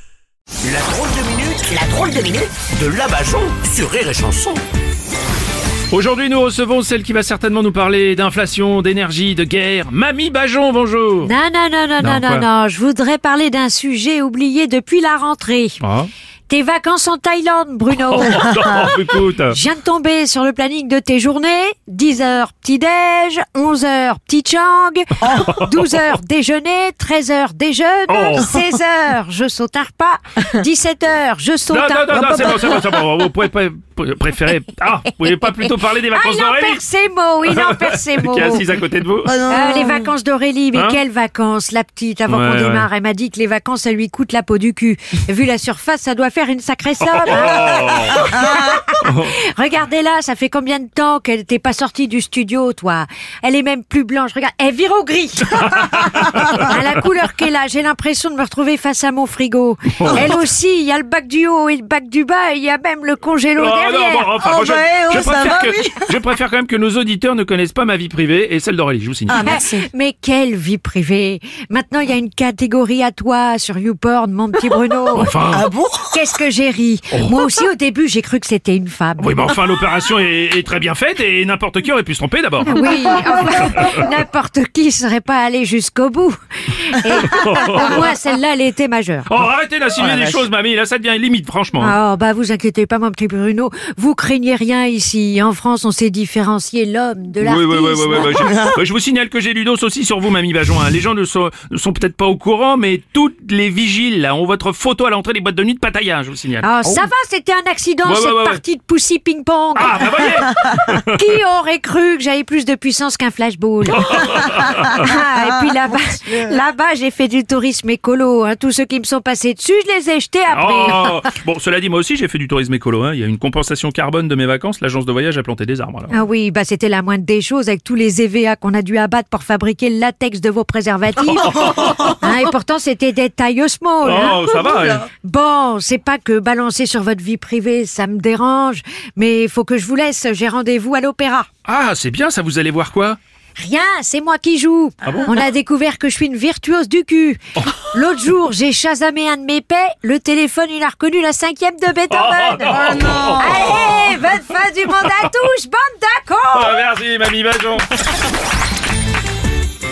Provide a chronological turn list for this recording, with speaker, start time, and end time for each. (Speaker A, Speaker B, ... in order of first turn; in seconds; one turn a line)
Speaker A: 0.6-4.6
Speaker B: 5.9-11.3
Speaker C: 11.2-15.8
Speaker B: 12.0-12.5
Speaker B: 15.8-16.1
Speaker C: 16.5-18.6
Speaker B: 18.1-19.6
Speaker C: 19.5-33.0
Speaker B: 25.3-25.8
Speaker B: 28.1-28.5
Speaker B: 31.7-36.8
Speaker C: 36.0-38.7
Speaker B: 37.4-39.4
Speaker D: 39.2-40.1
Speaker C: 39.4-64.4
Speaker B: 40.7-41.0
Speaker B: 42.3-42.9
Speaker B: 47.0-48.3
Speaker B: 49.0-49.4
Speaker B: 55.7-56.6
Speaker D: 56.2-56.5
Speaker B: 60.0-60.4
Speaker B: 63.6-69.6
Speaker D: 64.4-65.9
Speaker D: 69.3-69.8
Speaker C: 69.3-75.4
Speaker B: 75.1-75.7
Speaker D: 75.5-76.2
Speaker C: 76.1-79.5
Speaker B: 77.1-77.4
Speaker B: 79.2-82.9
Speaker C: 82.6-89.3
Speaker B: 83.8-84.0
Speaker B: 87.2-88.1
Speaker B: 89.3-91.9
Speaker D: 90.1-90.3
Speaker C: 91.8-98.5
Speaker B: 97.4-106.7
Speaker C: 106.6-110.2
Speaker B: 108.0-108.6
Speaker B: 109.7-111.2
Speaker C: 111.0-114.3
Speaker B: 113.9-114.9
Speaker C: 114.9-121.1
Speaker B: 120.5-126.2
Speaker C: 126.1-141.5
Speaker B: 131.6-132.1
Speaker B: 134.0-135.1
Speaker B: 141.7-143.2
Speaker C: 143.6-156.9
Speaker B: 145.0-145.3
Speaker B: 152.1-154.3
Speaker B: 155.0-155.3
Speaker B: 156.5-157.9